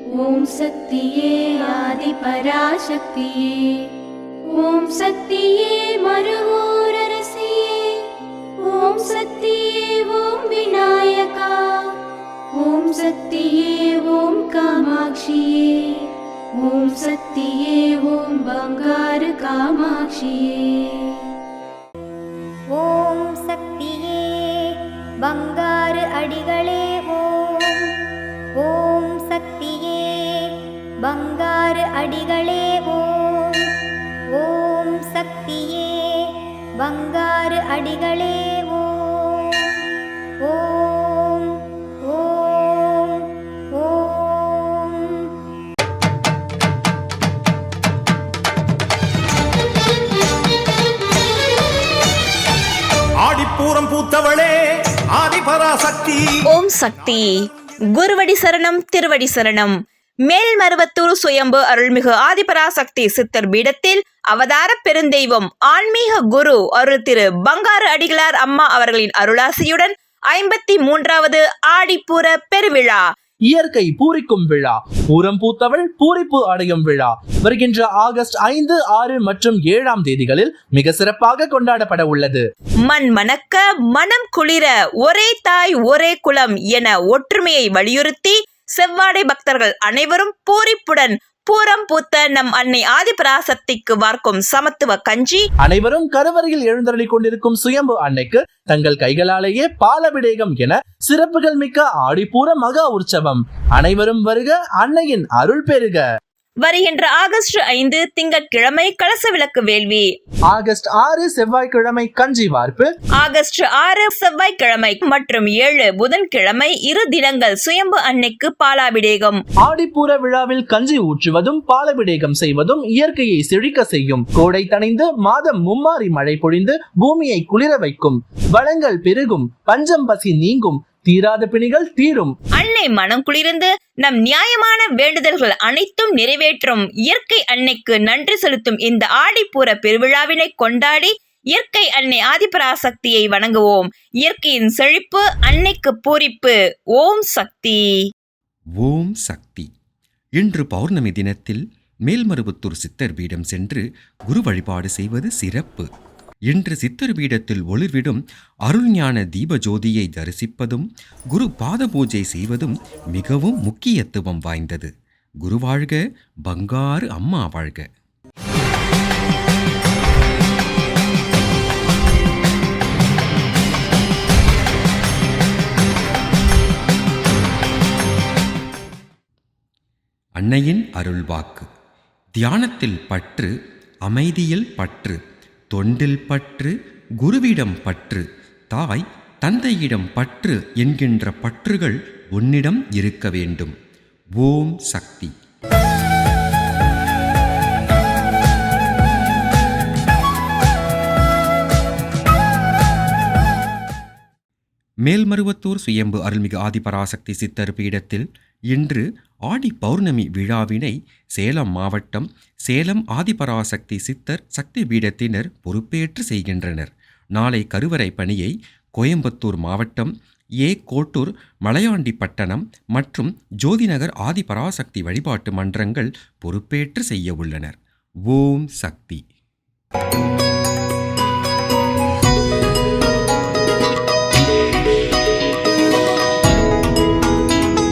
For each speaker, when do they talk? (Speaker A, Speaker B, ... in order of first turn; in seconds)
Speaker A: 0.2-3.9, 4.6-8.1, 8.7-11.9, 12.6-16.1, 16.6-21.1
Speaker B: 22.7-27.9, 28.6-30.5, 31.0-33.7, 34.3-39.8, 40.4-45.3
Speaker C: 53.2-56.4
Speaker D: 56.5-57.3, 58.0-59.8, 60.3-73.0, 82.9-95.4, 106.6-110.1, 113.2-119.4, 132.6-147.8
Speaker E: 73.5-82.4, 95.6-106.0, 110.5-112.9, 119.6-132.3
Speaker F: 148.8-149.7, 150.4-155.9, 156.5-167.9, 180.4-181.7, 182.3-183.5, 184.1-185.2, 185.7-193.8, 194.4-195.3, 205.1-220.1, 220.6-229.2